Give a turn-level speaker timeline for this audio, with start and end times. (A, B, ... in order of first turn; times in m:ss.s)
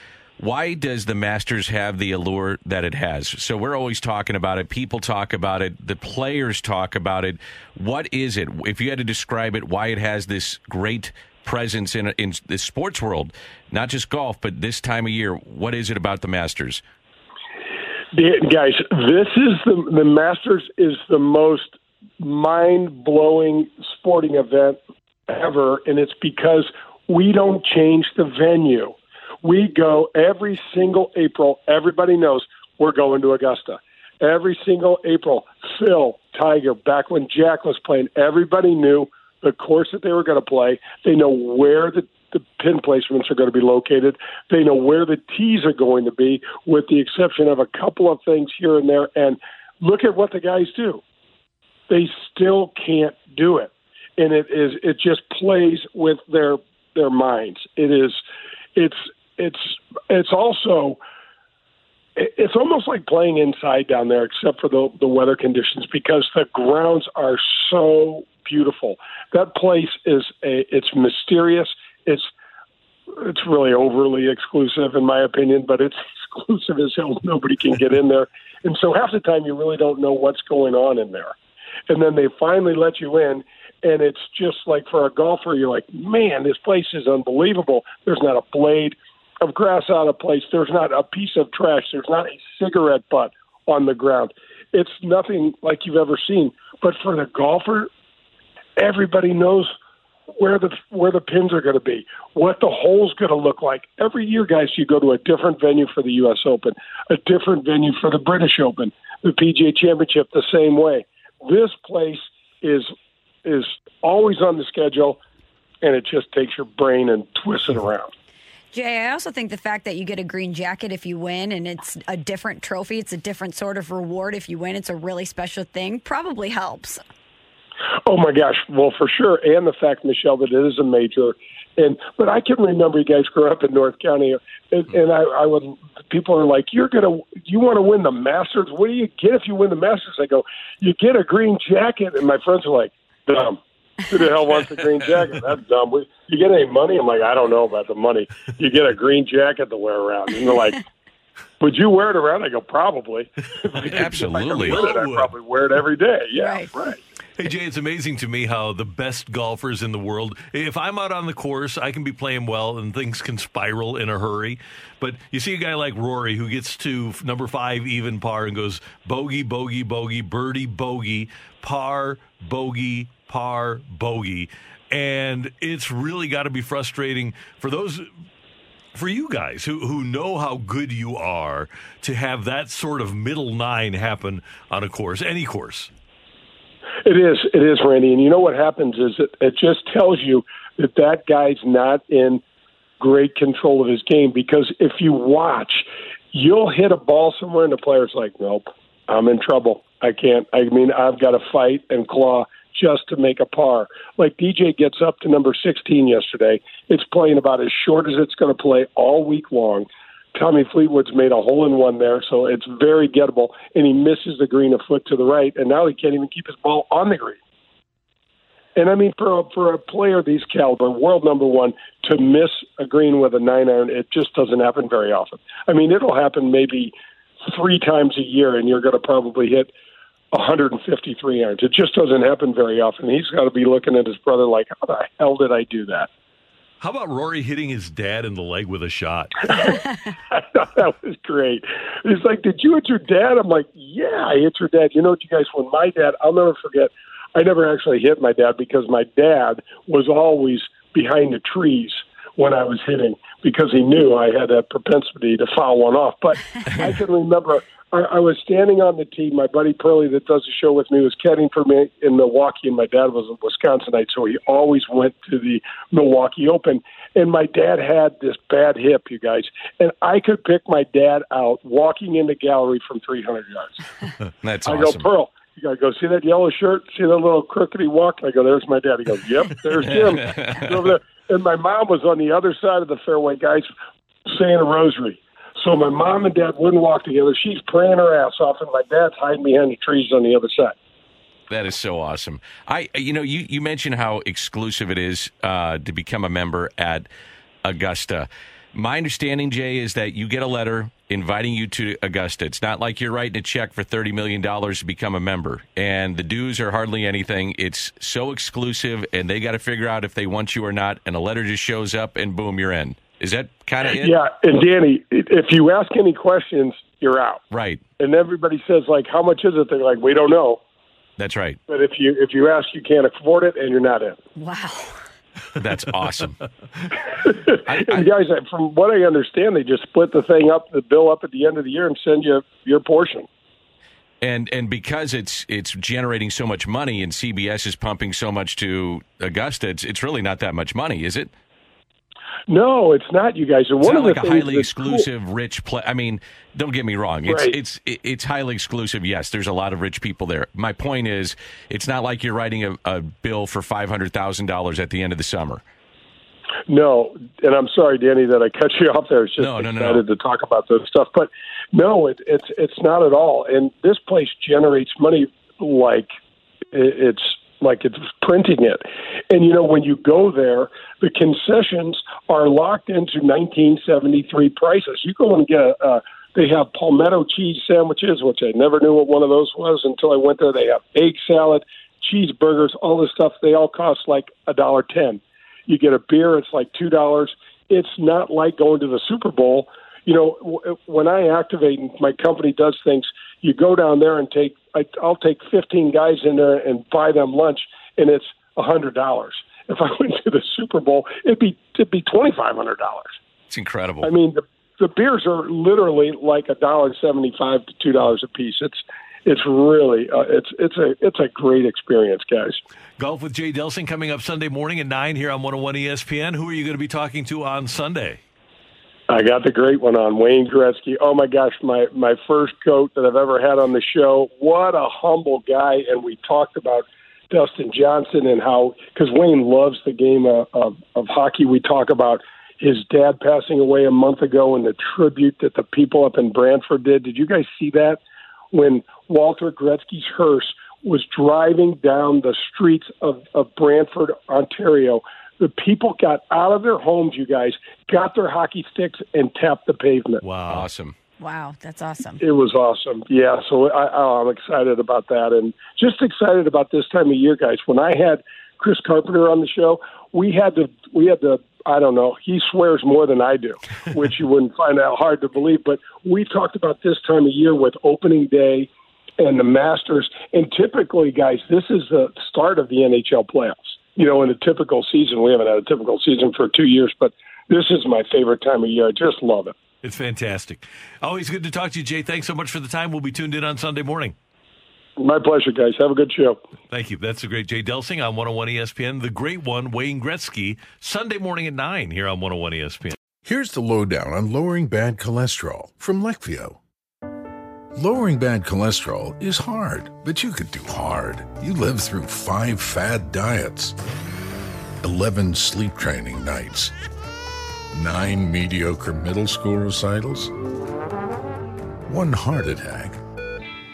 0:00.4-0:16.8 A
0:18.1-0:24.8 B
0:25.3-0:51.0 B
0:51.9-0:58.2 B
0:58.8-1:01.0 B
1:02.2-1:12.3 B
1:13.1-1:21.4 B
1:21.9-1:37.9 B
1:38.8-1:39.7 B
1:40.4-1:52.9 B
1:53.4-1:55.2 B
1:55.8-1:58.1 B
1:58.7-2:07.0 C
2:08.0-2:30.8 B
2:31.6-2:37.0 B
2:33.7-2:35.3 D
2:33.9-2:34.8 A
2:36.4-2:36.7 C
2:37.4-2:58.1 D
2:58.9-3:05.9 D
3:07.0-3:12.4 B
3:13.0-3:37.4 B
3:38.8-3:46.9 B
3:47.5-3:49.7 B
3:50.3-3:56.1 B
3:56.8-3:59.5 D
3:59.5-4:33.9 B
4:34.4-4:35.1 A
4:34.6-4:43.7 B
4:39.9-4:40.8 A
4:44.3-4:50.7 B
4:51.5-4:57.1 A
4:57.6-5:14.2 A
5:13.8-5:17.4 B
5:17.5-5:17.8 A
5:18.0-5:20.6 B
5:21.2-5:21.6 A
5:21.7-5:24.2 B
5:24.4-5:25.0 C
5:25.6-5:26.4 A
5:27.2-5:33.3 B
5:27.7-5:28.1 A
5:34.2-5:41.3 A
5:42.5-5:45.1 B
5:43.8-5:55.6 A
5:47.2-5:47.6 B
5:56.7-6:06.1 B
5:59.4-6:00.0 A
6:06.7-6:43.1 B
6:43.5-6:44.1 A
6:44.0-6:52.6 B
6:53.0-6:58.2 D
6:59.1-7:18.0 B
7:18.5-7:30.2 B
7:30.2-7:30.7 D
7:30.5-7:31.0 A
7:31.2-7:32.2 C
7:32.2-7:59.5 B
7:59.8-8:04.2 D
8:05.0-8:06.4 B
8:06.7-8:13.0 D
8:13.2-8:16.6 E
8:17.8-8:23.8 E
8:24.8-8:26.7 E
8:27.7-8:30.3 E
8:31.9-8:33.0 E